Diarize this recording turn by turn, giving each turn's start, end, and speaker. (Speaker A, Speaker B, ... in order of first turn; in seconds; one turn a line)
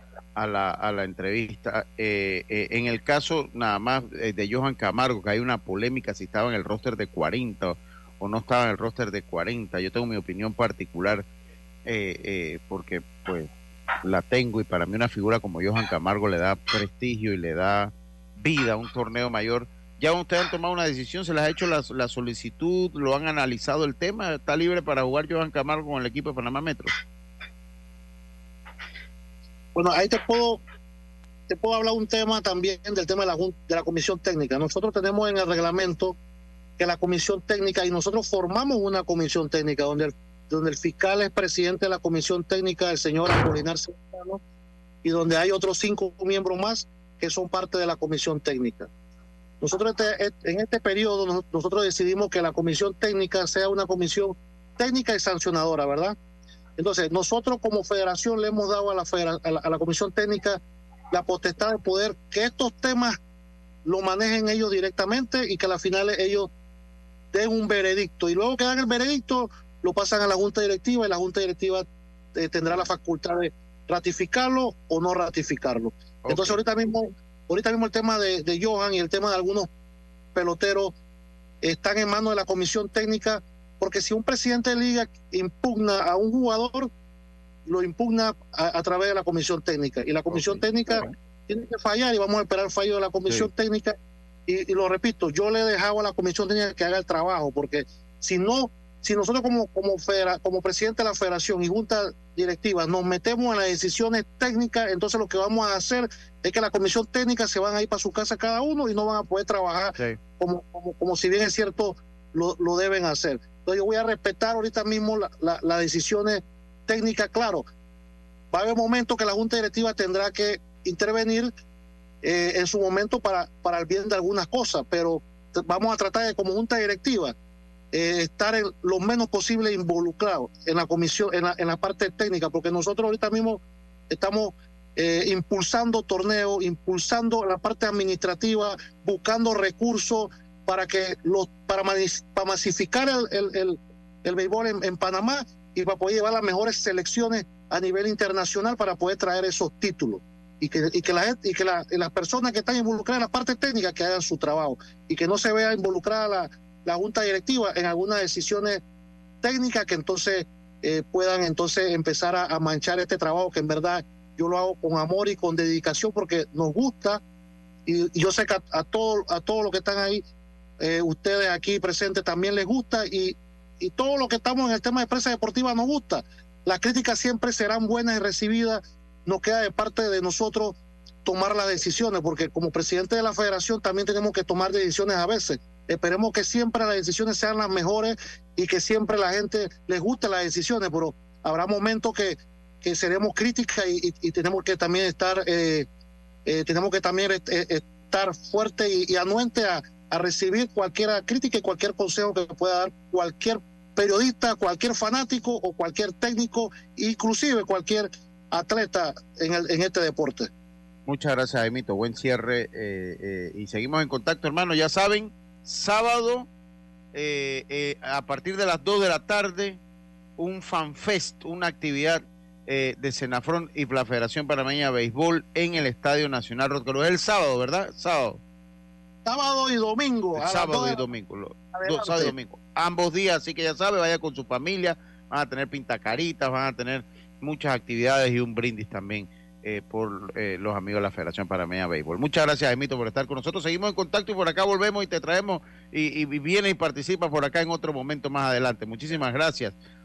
Speaker A: 0.4-11.2
Speaker A: 11.8-13.5
Speaker A: 14.0-26.9
Speaker B: 29.7-30.6
Speaker B: 31.5-36.2
Speaker B: 36.8-44.4
Speaker B: 45.0-48.9
Speaker B: 49.6-56.1
Speaker B: 56.8-60.6
Speaker B: 61.1-63.2
Speaker B: 63.8-66.5
Speaker B: 67.3-79.7
Speaker A: 76.2-76.6
Speaker B: 80.3-80.9
Speaker B: 81.6-86.9
Speaker B: 87.7-94.0
Speaker A: 90.3-91.1
Speaker B: 94.5-117.6
Speaker B: 118.5-121.5
Speaker B: 122.2-127.3
Speaker B: 127.9-158.8
Speaker B: 159.4-167.2
Speaker B: 167.8-170.2
Speaker B: 170.8-195.9
Speaker B: 196.4-210.5
Speaker A: 211.1-216.5
Speaker A: 217.1-219.8
Speaker A: 220.4-228.4
Speaker B: 229.2-231.1
Speaker A: 230.3-249.8
Speaker B: 231.7-232.3